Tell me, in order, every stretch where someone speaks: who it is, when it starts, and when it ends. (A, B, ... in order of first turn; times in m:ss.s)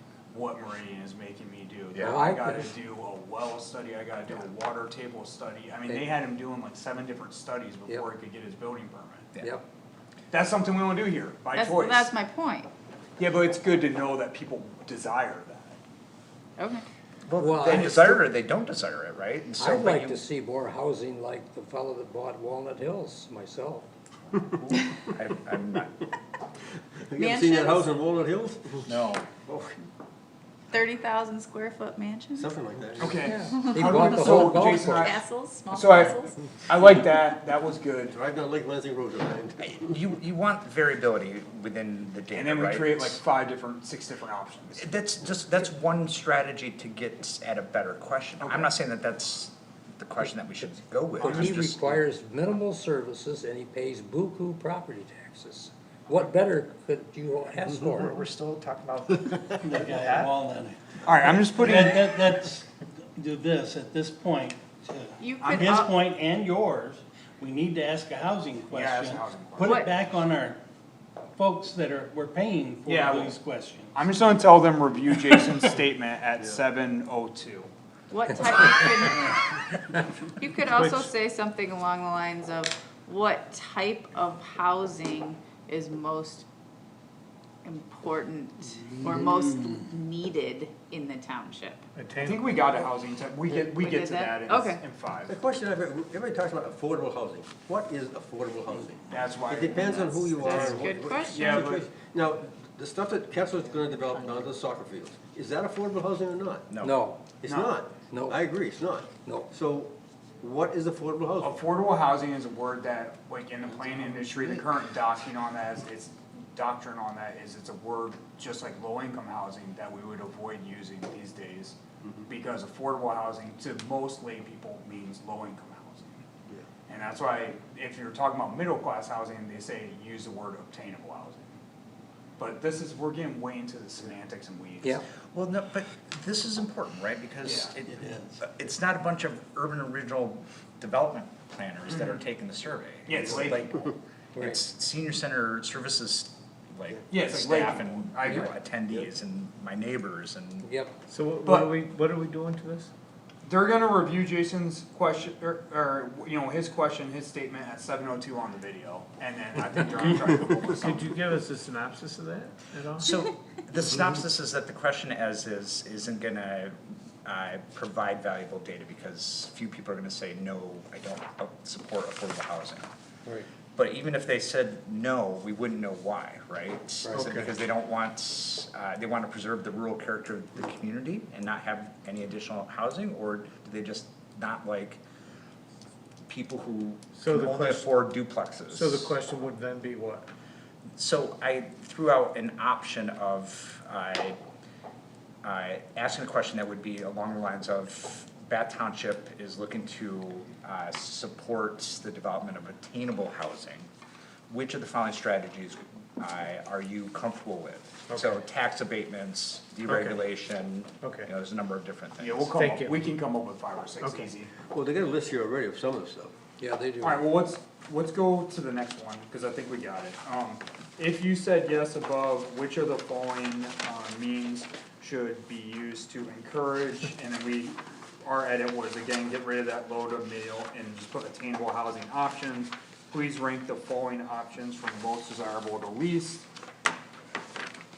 0:00.3-0:09.3 A
0:01.9-0:02.2 B
0:02.0-0:02.7 C
0:09.4-0:09.6 C
0:10.3-0:12.1 A
0:11.5-0:12.7 D
0:13.2-0:15.8 A
0:16.6-0:16.8 D
0:17.2-0:20.2 B
0:17.4-0:18.1 C
0:19.6-0:23.9 C
0:24.4-0:26.0 B
0:27.0-0:28.9 E
0:27.2-0:27.9 D
0:28.8-0:29.3 B
0:29.4-0:29.7 E
0:30.7-0:32.5 D
0:32.4-0:33.2 E
0:33.0-0:38.2 A
0:33.2-0:35.1 C
0:33.4-0:36.3 D
0:38.1-0:39.9 E
0:39.6-0:43.2 B
0:42.3-0:44.8 A
0:44.8-0:52.0 B
0:48.4-0:48.7 A
0:51.2-0:58.2 C
0:57.6-1:00.3 B
0:59.6-1:10.6 F
1:01.0-1:02.1 A
1:05.2-1:05.9 D
1:05.4-1:05.8 A
1:08.7-1:09.8 A
1:09.6-1:10.0 D
1:11.4-1:14.1 F
1:12.8-1:13.4 A
1:13.9-1:17.7 A
1:15.1-1:15.7 F
1:18.1-1:19.5 D
1:20.3-1:26.5 D
1:20.7-1:21.0 G
1:27.6-1:31.8 D
1:28.8-1:29.9 F
1:32.0-1:32.6 G
1:32.2-1:35.4 A
1:33.5-1:34.8 D
1:35.3-1:46.7 E
1:39.1-1:41.9 A
1:40.4-1:41.7 D
1:46.7-1:47.0 B
1:46.8-1:47.4 C
1:47.4-1:51.6 E
1:47.4-1:47.8 A
1:48.0-1:48.4 C
1:49.2-1:49.5 C
1:51.4-2:06.2 A
1:54.1-1:54.6 E
2:06.9-2:11.6 A
2:12.4-2:15.0 A
2:15.3-2:30.7 B
2:17.4-2:17.7 A
2:18.0-2:18.3 F
2:21.9-2:22.2 A
2:23.0-2:23.9 A
2:24.3-2:24.6 C
2:27.1-2:28.5 A
2:30.6-2:30.9 C
2:31.1-2:32.9 G
2:31.4-2:31.7 A
2:33.4-2:41.2 A
2:40.8-2:43.1 G
2:43.0-2:52.9 B
2:53.7-3:05.0 B
2:57.0-2:57.3 C
2:57.1-2:57.4 G
3:06.3-3:09.1 B
3:07.2-3:07.9 G
3:08.7-3:10.2 G
3:11.0-3:14.4 B
3:15.4-3:23.9 B
3:24.5-3:32.5 B
3:28.1-3:28.4 G
3:29.9-3:30.1 G
3:31.0-3:31.3 G
3:32.2-3:34.5 A
3:32.6-3:33.0 G
3:34.0-3:34.3 G
3:34.7-3:36.3 E
3:36.6-3:37.2 C
3:37.0-3:56.5 A